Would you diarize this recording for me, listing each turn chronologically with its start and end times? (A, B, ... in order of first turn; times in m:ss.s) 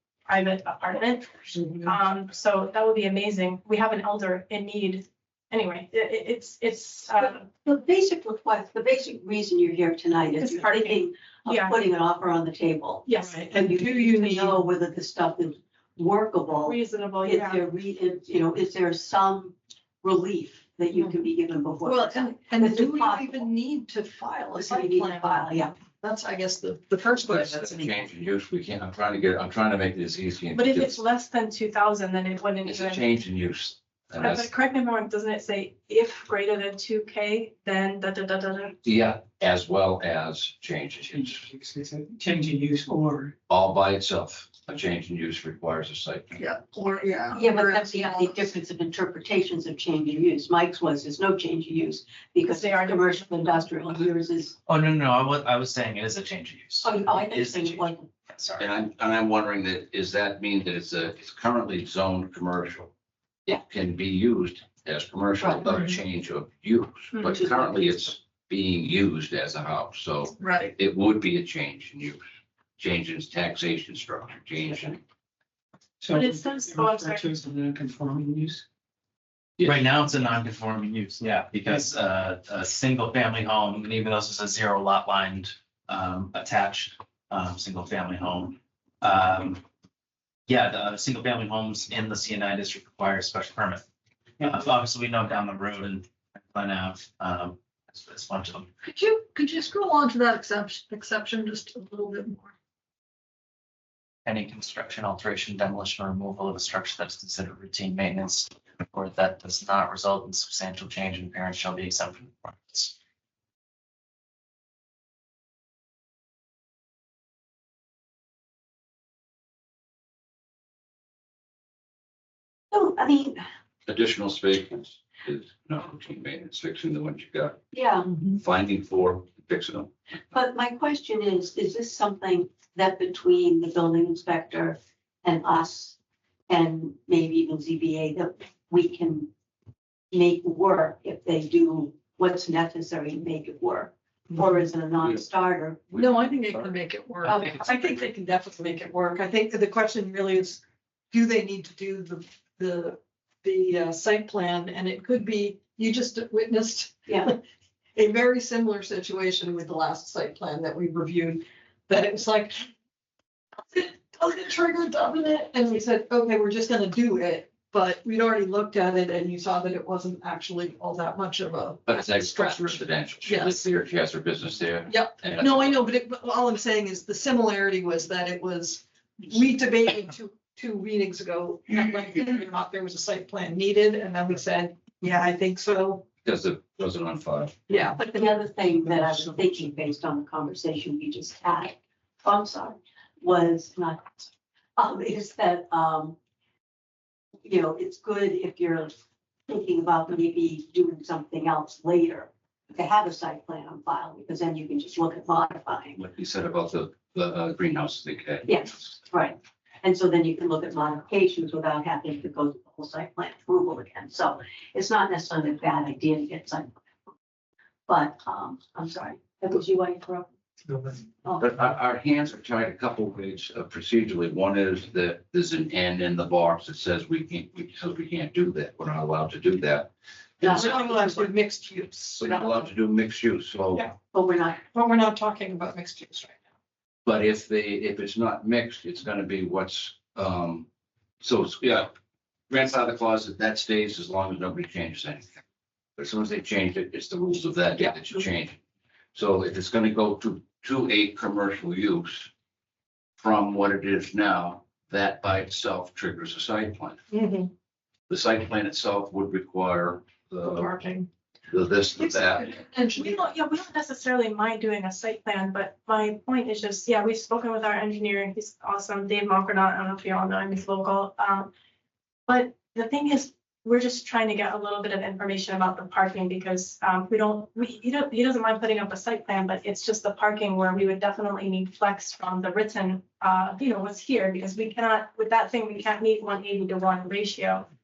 0:00.3-0:07.5 A
0:07.5-0:23.5 B
0:10.4-0:11.8 A
0:13.1-0:13.4 A
0:13.1-0:14.6 C
0:16.7-0:17.6 A
0:20.9-0:21.2 C
0:21.8-0:28.1 C
0:24.6-0:25.7 B
0:27.2-0:31.0 D
0:30.5-0:33.0 A
0:32.6-0:34.5 D
0:34.2-0:38.8 A
0:38.8-0:41.5 D
0:41.5-0:43.3 E
0:43.5-0:46.4 D
0:46.4-0:48.5 C
0:47.3-0:54.6 B
0:52.5-0:53.7 A
0:54.7-0:58.7 F
0:56.8-0:58.1 B
0:58.6-1:02.9 D
1:03.5-1:12.2 D
1:10.4-1:10.7 C
1:12.8-1:15.0 D
1:16.0-1:18.6 E
1:16.1-1:17.3 A
1:19.6-1:19.9 D
1:19.6-1:29.6 F
1:30.5-1:33.8 F
1:34.4-1:38.7 F
1:38.8-1:42.5 C
1:44.2-1:52.9 F
2:02.7-2:03.4 B
2:03.9-2:07.6 D
2:07.7-2:08.1 B
2:08.4-2:09.9 D
2:10.3-2:16.0 B
2:16.5-2:19.3 B
2:20.1-2:26.2 B
2:26.0-2:37.4 C
2:26.2-2:26.8 D
2:27.3-2:27.6 B
2:37.1-2:37.3 B
2:38.0-2:42.7 C
2:43.7-2:53.8 C
2:51.9-2:55.9 D
2:54.9-3:06.0 C
3:06.2-3:07.6 D
3:07.7-3:08.0 C
3:08.0-3:16.2 B
3:17.4-3:18.9 B
3:19.5-3:26.0 B
3:26.0-3:29.0 D
3:28.4-3:36.7 B
3:37.9-3:40.3 B
3:41.4-3:50.7 D
3:50.4-3:51.3 B
3:50.5-3:52.5 C
3:52.2-3:53.9 D
3:54.1-3:54.6 B
3:54.6-3:56.4 C
3:57.0-4:00.7 D
4:01.2-4:01.9 D
4:02.5-4:05.4 D
4:06.0-4:08.6 D
4:09.1-4:12.3 D
4:13.2-4:17.0 D
4:17.1-4:17.5 C
4:18.1-4:20.7 D
4:20.4-4:21.1 C
4:21.5-4:22.6 D
4:22.0-4:23.3 C
4:23.0-4:31.5 A
4:32.3-4:47.7 A